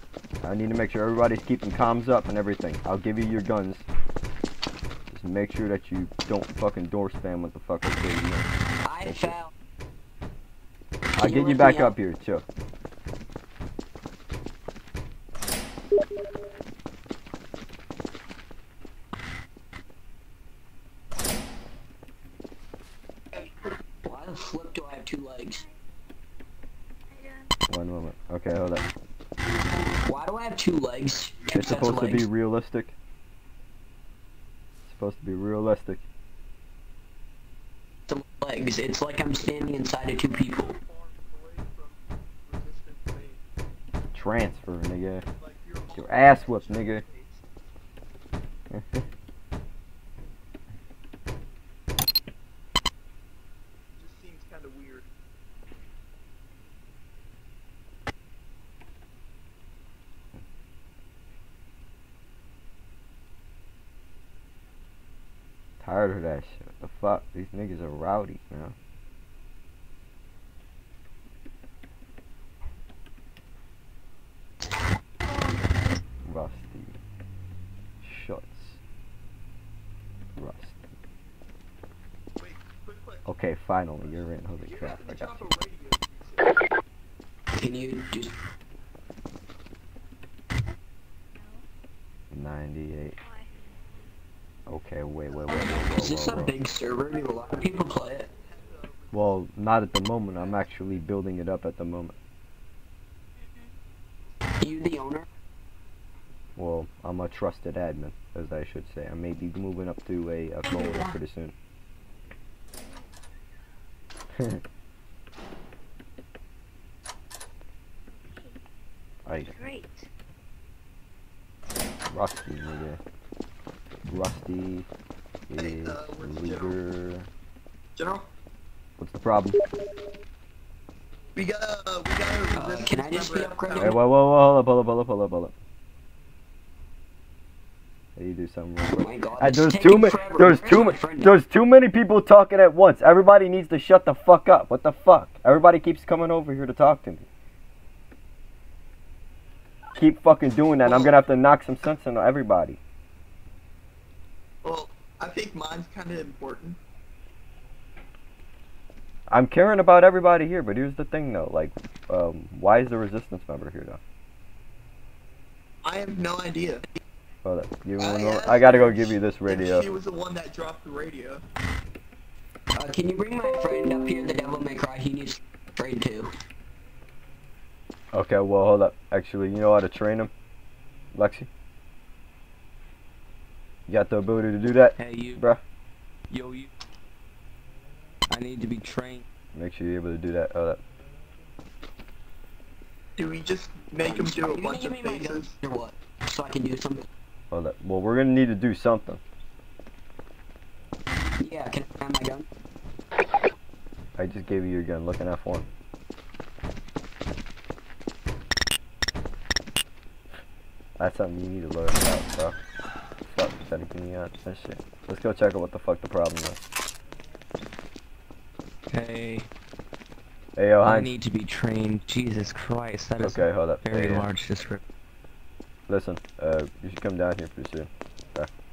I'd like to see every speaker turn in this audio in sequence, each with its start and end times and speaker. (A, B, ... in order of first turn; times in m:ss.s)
0:00.4-0:03.9 A
0:05.1-0:09.4 A
0:08.8-0:09.5 B
0:11.2-0:12.0 B
0:11.2-0:12.4 A
0:24.0-0:25.6 B
0:27.1-0:27.5 C
0:27.7-0:28.9 A
0:30.1-0:32.3 B
0:31.5-0:33.0 A
0:34.9-0:36.0 A
0:38.1-0:40.8 B
0:40.5-0:43.4 D
0:44.1-0:45.2 A
0:45.4-0:47.5 D
0:45.9-0:47.0 A
0:48.7-0:49.0 A
0:54.0-0:55.1 D
1:05.8-1:08.8 A
1:16.2-1:17.0 A
1:18.0-1:18.8 A
1:20.4-1:20.9 A
1:22.4-1:23.3 D
1:23.3-1:25.5 A
1:24.0-1:26.6 D
1:27.6-1:28.3 B
1:31.4-1:31.7 C
1:32.3-1:33.2 A
1:33.2-1:33.5 C
1:34.7-1:36.6 A
1:35.5-1:38.3 B
1:38.3-1:39.5 D
1:39.1-1:42.2 A
1:40.3-1:41.0 D
1:44.6-1:45.3 B
1:46.6-1:51.5 A
1:58.3-1:58.6 C
1:59.3-1:59.7 A
1:59.4-2:00.1 C
2:02.1-2:03.0 A
2:04.1-2:04.9 A
2:05.5-2:07.3 A
2:05.6-2:06.8 D
2:08.0-2:08.3 D
2:09.0-2:09.6 A
2:11.4-2:14.0 D
2:12.6-2:14.0 B
2:13.8-2:15.6 A
2:18.2-2:27.3 A
2:19.0-2:21.3 B
2:30.0-2:32.8 A
2:30.8-2:31.2 D
2:34.6-2:36.8 D
2:39.3-2:44.0 A
2:45.8-2:46.8 D
2:47.4-2:49.9 A
2:48.0-2:51.4 D
2:52.8-2:56.3 B
2:58.1-3:00.3 A
3:01.1-3:01.5 A
3:03.9-3:05.6 A
3:05.0-3:05.4 E
3:06.3-3:06.7 E
3:08.3-3:09.2 E
3:09.5-3:10.8 A
3:13.2-3:15.6 D
3:14.0-3:17.1 B
3:17.5-3:19.2 A
3:21.4-3:22.5 B
3:24.2-3:25.7 A
3:31.0-3:32.6 A
3:33.3-3:36.6 A
3:38.9-3:39.5 E
3:40.6-3:41.1 A
3:40.8-3:44.8 E
3:43.2-3:44.3 A
3:45.9-3:48.5 A